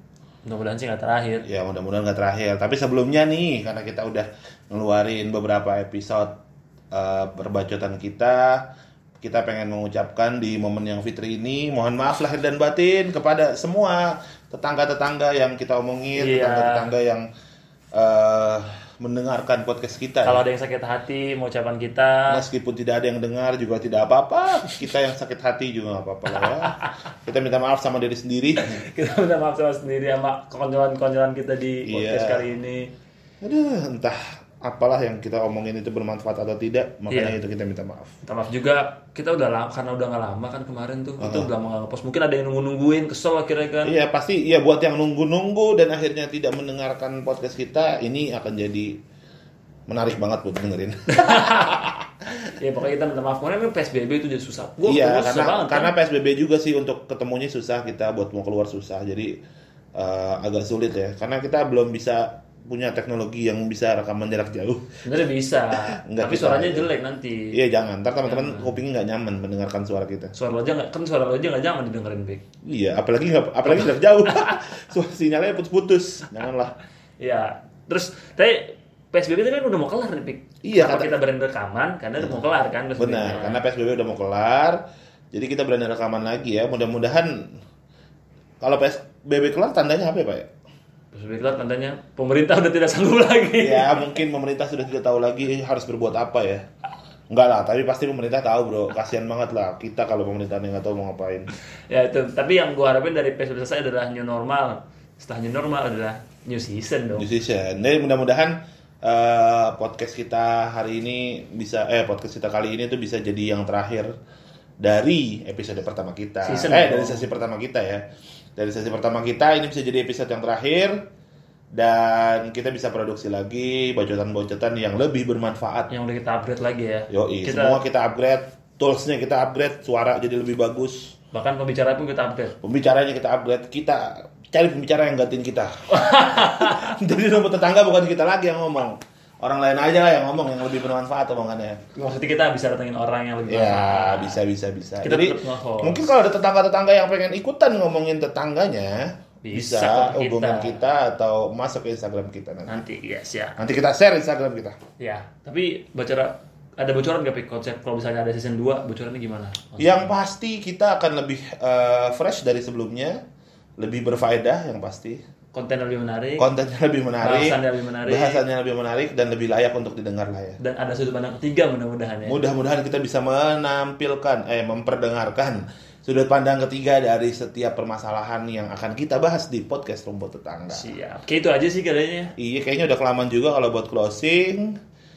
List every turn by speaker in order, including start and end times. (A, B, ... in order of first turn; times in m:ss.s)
0:00.4-0:01.5 A
0:01.4-0:06.3 B
0:06.9-0:08.6 B
0:09.2-0:17.3 B
0:16.2-0:16.9 A
0:17.9-0:20.4 B
0:20.2-0:22.4 A
0:22.3-0:28.8 B
0:26.4-0:26.9 A
0:28.6-0:32.9 A
0:31.9-0:32.4 B
0:33.4-0:38.1 B
0:37.1-0:37.4 A
0:38.2-0:44.0 A
0:41.2-0:41.5 B
0:43.8-0:49.0 B
0:49.9-0:52.0 B
0:51.1-0:51.9 A
0:52.5-0:55.9 A
0:54.8-0:59.4 B
1:00.0-1:05.0 B
1:05.0-1:07.6 A
1:06.0-1:06.9 B
1:07.5-1:10.3 B
1:08.2-1:08.8 A
1:10.3-1:12.4 A
1:12.6-1:16.7 B
1:17.2-1:23.6 A
1:20.6-1:21.2 B
1:22.2-1:22.4 B
1:23.0-1:24.8 B
1:25.3-1:27.5 B
1:28.6-1:30.5 B
1:31.1-1:34.2 A
1:33.6-1:36.6 B
1:37.3-1:41.5 B
1:41.9-1:47.3 A
1:47.1-1:54.1 B
1:54.8-1:58.0 B
1:56.4-1:57.3 A
1:58.6-2:01.0 B
2:01.7-2:05.9 B
2:05.9-2:07.8 A
2:07.1-2:11.2 B
2:11.3-2:12.6 A
2:12.6-2:21.8 B
2:15.9-2:16.9 A
2:21.9-2:24.4 A
2:23.5-2:32.8 B
2:25.0-2:26.0 A
2:29.4-2:30.8 A
2:32.7-2:33.6 A
2:33.6-2:34.8 B
2:35.0-2:40.1 A
2:39.8-2:43.2 B
2:43.8-2:45.2 B
2:45.5-2:46.5 A
2:46.4-2:50.6 B
2:47.2-2:48.4 A
2:50.6-2:52.4 A
2:52.3-3:00.9 B
3:00.7-3:02.3 A
3:02.4-3:04.8 B